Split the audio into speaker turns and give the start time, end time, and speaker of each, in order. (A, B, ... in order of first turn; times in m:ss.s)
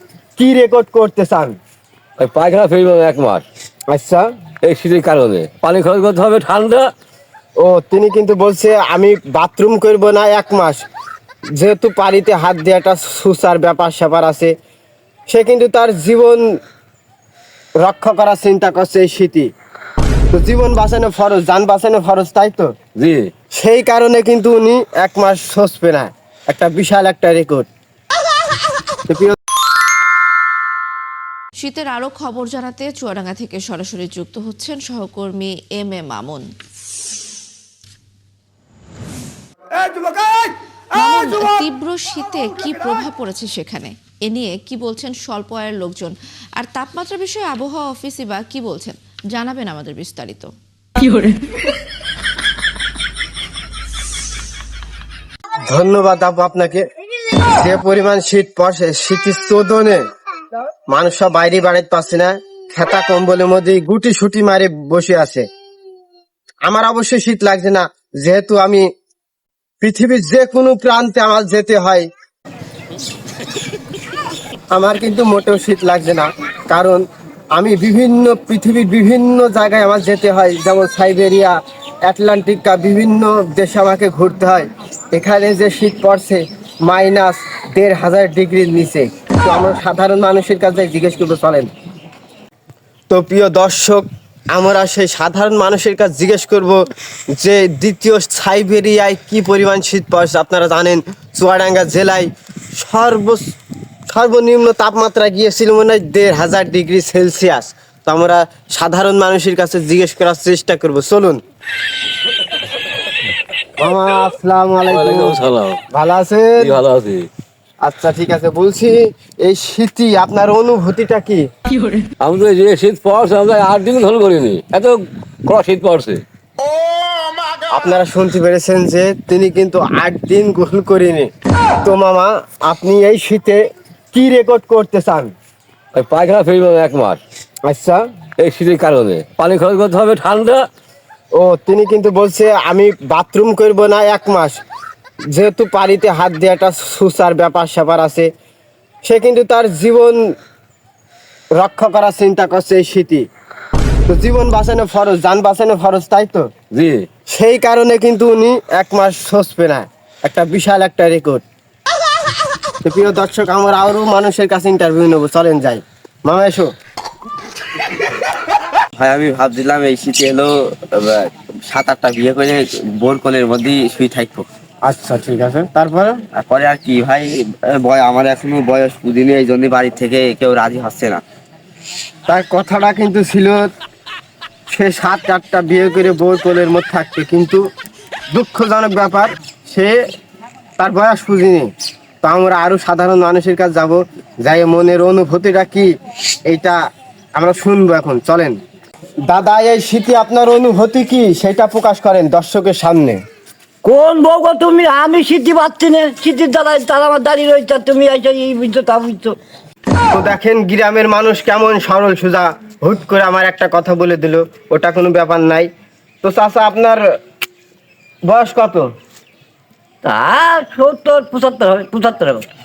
0:00.4-0:01.6 A
0:02.2-0:03.4 B
0:03.9-0:04.3 A
0:04.6-0:06.9 B
0:07.6-0:10.8 A
0:11.6-0:14.5 A
0:15.3-0:16.5 A
0:17.8-0:19.5 A
0:20.3-0:22.7 A
0:23.0-0:23.3 B
0:23.5-0:27.7 A
0:29.1-0:29.4 A
0:31.6-0:36.4 C
0:40.9-0:51.4 C
0:55.7-0:56.8 A
0:57.4-1:00.0 A
1:00.9-1:05.4 A
1:06.6-1:08.8 A
1:09.8-1:12.1 A
1:14.7-1:31.7 A
1:33.1-1:36.8 A
1:37.4-1:43.4 A
1:44.1-1:51.4 A
1:53.8-1:55.4 A
1:54.9-1:55.8 B
1:55.9-1:56.8 A
1:56.6-1:57.3 B
1:57.8-2:01.5 A
2:02.2-2:06.2 B
2:07.7-2:11.3 A
2:11.8-2:13.6 A
2:14.1-2:15.3 A
2:15.9-2:17.2 B
2:17.6-2:18.0 A
2:18.4-2:20.6 B
2:21.3-2:24.6 A
2:25.3-2:28.3 A
2:29.0-2:30.2 A
2:31.6-2:33.2 A
2:34.1-2:36.5 A
2:36.7-2:37.0 B
2:37.3-2:41.4 A
2:42.8-2:46.7 A
2:49.0-2:54.5 D
2:54.8-2:56.2 A
2:56.3-3:01.2 D
3:02.3-3:03.7 A
3:04.7-3:07.6 A
3:08.3-3:10.0 A
3:10.8-3:11.7 A
3:12.2-3:15.9 A
3:16.5-3:16.8 A
3:17.4-3:18.6 A
3:19.3-3:23.2 A
3:23.8-3:29.4 E
3:30.1-3:35.7 A
3:36.2-3:37.0 A
3:38.3-3:38.9 A
3:40.0-3:42.5 E